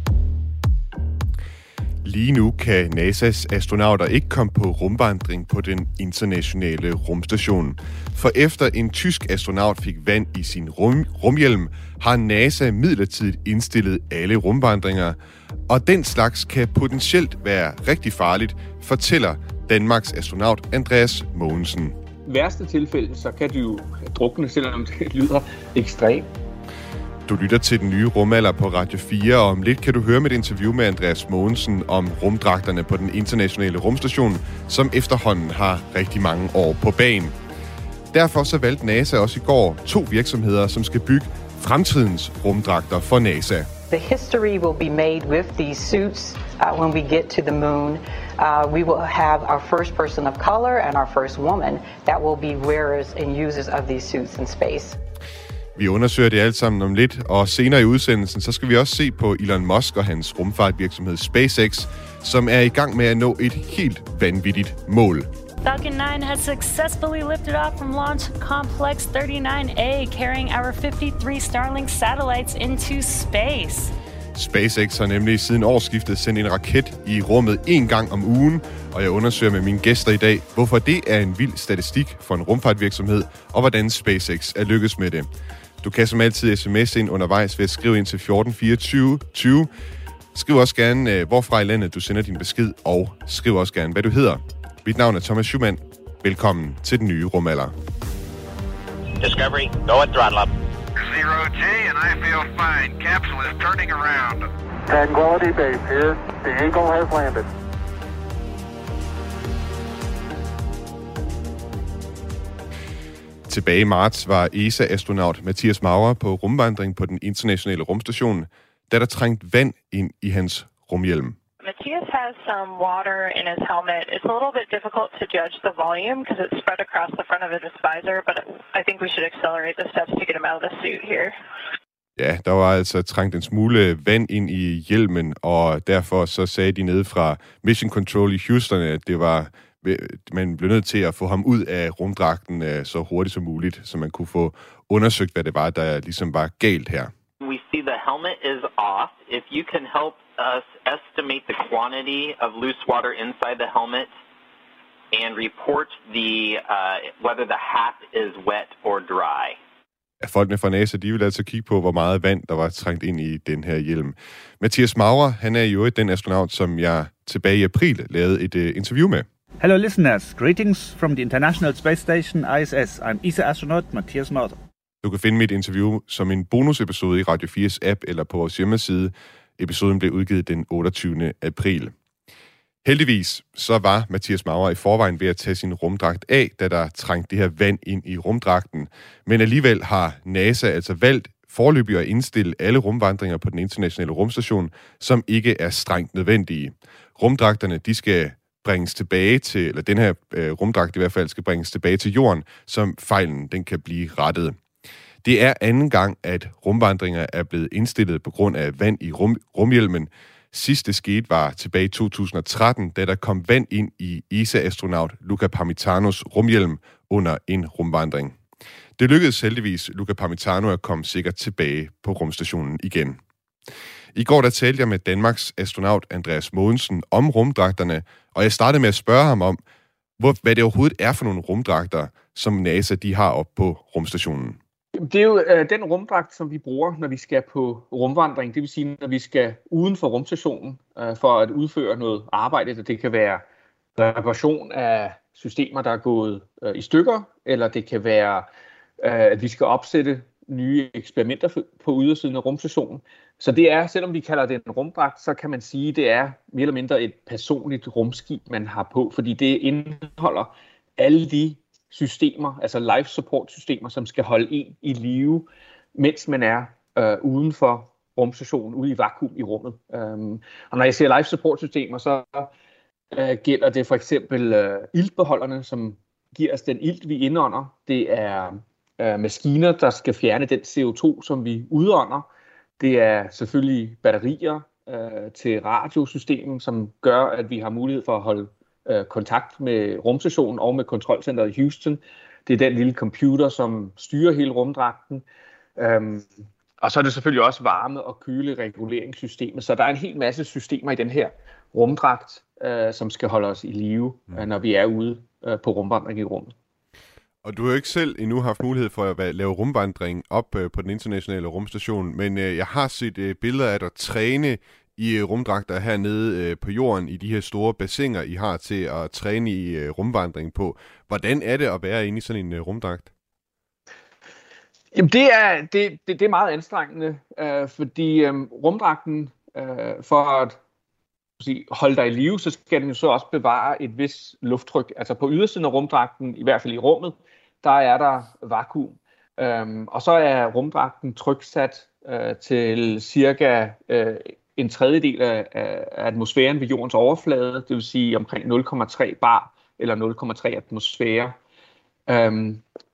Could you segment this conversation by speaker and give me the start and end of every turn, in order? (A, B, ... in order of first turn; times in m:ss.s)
0:02.0-0:15.2 A
0:15.7-0:22.0 A
0:22.2-0:26.3 B
0:27.3-0:37.3 A
0:38.1-0:43.7 A
0:43.9-0:55.0 C
0:55.8-1:05.3 A
1:05.6-1:13.9 D
1:14.3-1:25.3 A
1:25.8-1:29.7 A
1:30.3-1:37.7 A
1:39.2-1:40.5 E
1:41.0-1:44.5 F
1:44.9-1:47.5 G
1:53.5-2:01.4 A
2:01.6-2:11.3 H
2:12.2-2:27.1 A
2:27.4-2:34.1 E
2:35.1-2:39.6 E
2:40.2-2:49.2 A
2:49.6-2:54.6 I
2:55.0-3:01.9 A
3:02.8-3:24.6 A
3:25.2-3:38.4 A
3:39.0-3:43.2 A
3:44.1-3:49.6 A
3:50.2-3:54.6 A
3:55.0-4:03.4 B
4:04.0-4:08.5 B
4:09.0-4:32.5 B
4:33.1-4:42.2 B
4:42.8-4:55.2 B
4:55.8-4:56.3 B
4:56.8-5:06.5 B
5:07.4-5:23.1 A
5:24.9-5:30.6 B
5:31.4-5:51.4 B
5:52.1-5:52.6 B